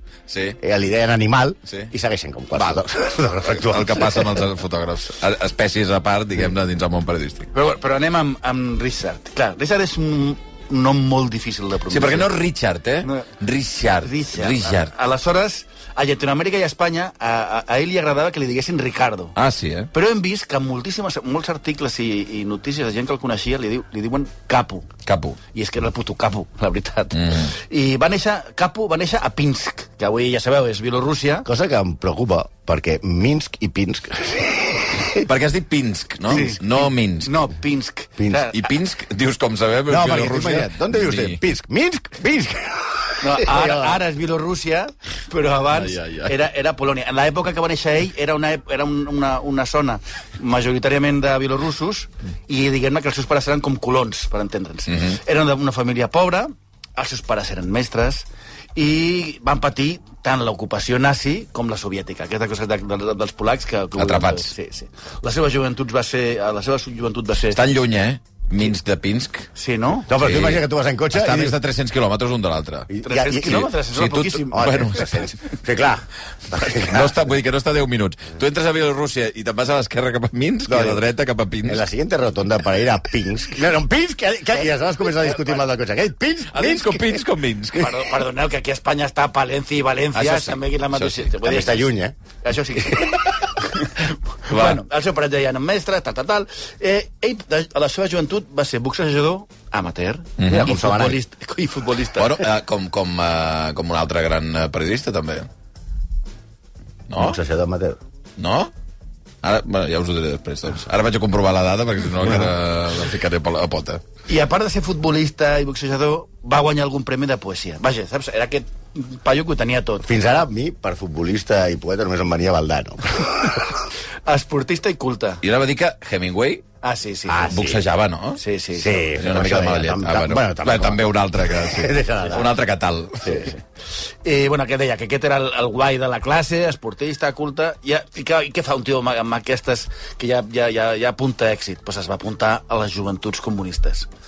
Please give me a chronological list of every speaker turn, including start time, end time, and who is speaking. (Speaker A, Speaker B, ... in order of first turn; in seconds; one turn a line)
Speaker A: 0.3-0.6
Speaker B: 0.6-4.4
Speaker A: 2.6-2.8
Speaker A: 3.6-7.5
Speaker C: 7.5-12.3
Speaker A: 11.9-14.9
Speaker C: 14.0-19.4
Speaker A: 19.4-19.9
Speaker C: 19.9-24.9
Speaker A: 25.1-25.4
Speaker C: 25.5-31.5
Speaker A: 27.1-27.5
Speaker B: 31.4-35.3
Speaker A: 35.2-37.3
Speaker C: 36.3-38.7
Speaker B: 38.2-38.5
Speaker A: 38.5-41.4
Speaker B: 39.9-44.0
Speaker C: 43.2-67.6
Speaker A: 45.7-46.3
Speaker A: 54.9-55.2
Speaker A: 64.0-64.5
Speaker A: 67.5-69.5
Speaker C: 69.5-70.1
Speaker B: 70.1-71.6
Speaker A: 70.1-72.9
Speaker B: 72.9-73.7
Speaker C: 73.0-74.7
Speaker A: 73.4-75.4
Speaker B: 74.5-77.2
Speaker A: 76.8-81.8
Speaker B: 80.7-81.0
Speaker B: 81.6-87.2
Speaker A: 86.5-88.0
Speaker C: 87.8-102.5
Speaker A: 90.2-91.3
Speaker B: 91.4-92.2
Speaker A: 94.5-94.8
Speaker A: 100.4-100.8
Speaker B: 100.5-101.2
Speaker A: 102.2-105.5
Speaker A: 107.1-107.4
Speaker B: 107.2-108.0
Speaker A: 108.4-108.7
Speaker A: 109.4-114.0
Speaker C: 114.3-120.1
Speaker B: 120.0-123.8
Speaker C: 124.3-125.4
Speaker A: 125.4-126.7
Speaker C: 126.8-127.6
Speaker B: 127.3-127.8
Speaker A: 127.5-128.4
Speaker C: 128.4-129.1
Speaker B: 128.7-132.5
Speaker A: 129.1-133.4
Speaker B: 133.2-133.6
Speaker C: 134.2-144.1